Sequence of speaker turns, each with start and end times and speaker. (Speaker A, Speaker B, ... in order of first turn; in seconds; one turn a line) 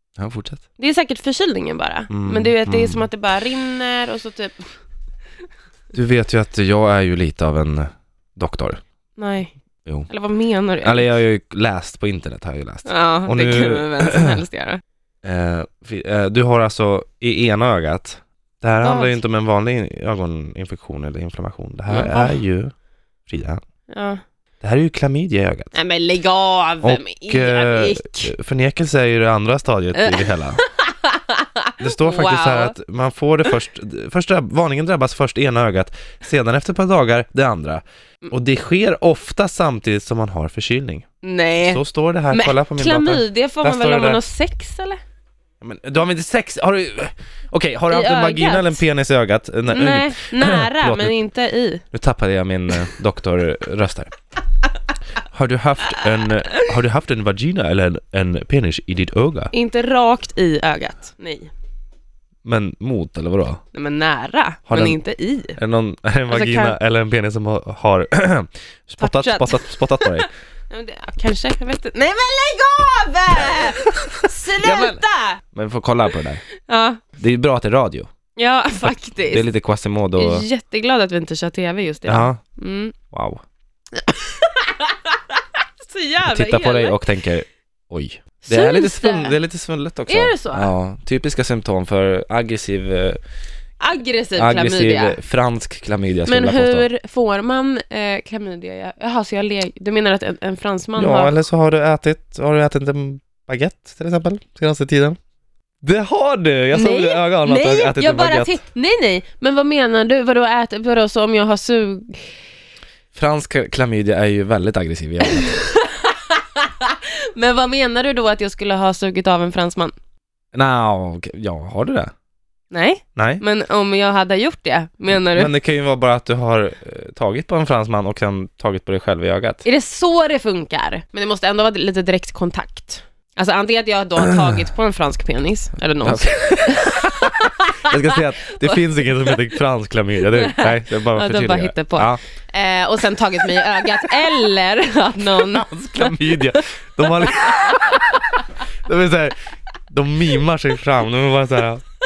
Speaker A: 0.2-0.6
Speaker B: 0.8-4.7
Speaker A: 2.1-3.1
Speaker A: 5.9-8.8
Speaker B: 9.2-9.5
Speaker B: 10.1-11.1
Speaker A: 10.8-14.4
Speaker B: 12.8-14.8
Speaker A: 15.2-22.7
Speaker B: 18.8-19.2
Speaker B: 21.9-22.4
Speaker A: 23.3-23.6
Speaker B: 23.9-24.2
Speaker A: 24.6-25.7
Speaker B: 25.7-28.3
Speaker A: 26.8-30.6
Speaker B: 29.9-32.8
Speaker A: 31.8-41.1
Speaker B: 41.2-45.0
Speaker A: 41.6-44.2
Speaker A: 45.6-51.1
Speaker B: 47.9-48.8
Speaker B: 49.7-51.8
Speaker A: 51.9-54.1
Speaker A: 55.3-59.5
Speaker B: 59.5-61.5
Speaker A: 62.4-63.6
Speaker B: 63.7-65.6
Speaker A: 64.7-65.0
Speaker A: 65.5-70.3
Speaker B: 66.3-66.8
Speaker B: 69.0-75.4
Speaker A: 73.5-75.0
Speaker A: 75.5-76.4
Speaker B: 76.6-77.0
Speaker A: 77.2-78.1
Speaker B: 78.3-79.5
Speaker A: 79.2-80.5
Speaker B: 80.2-82.9
Speaker A: 82.0-82.4
Speaker A: 83.1-83.4
Speaker B: 84.0-87.0
Speaker A: 86.2-93.2
Speaker B: 88.5-89.3
Speaker B: 90.1-90.7
Speaker B: 93.8-95.2
Speaker A: 94.3-96.9
Speaker B: 96.2-101.3
Speaker A: 101.0-105.2
Speaker A: 105.8-108.6
Speaker B: 106.7-112.3
Speaker A: 113.1-115.5
Speaker B: 115.2-119.9
Speaker A: 120.5-122.1
Speaker B: 122.7-125.5
Speaker A: 123.2-123.4
Speaker A: 125.1-129.6
Speaker B: 129.6-139.4
Speaker A: 136.0-142.2
Speaker B: 140.3-148.3
Speaker A: 145.3-148.3
Speaker A: 148.8-151.8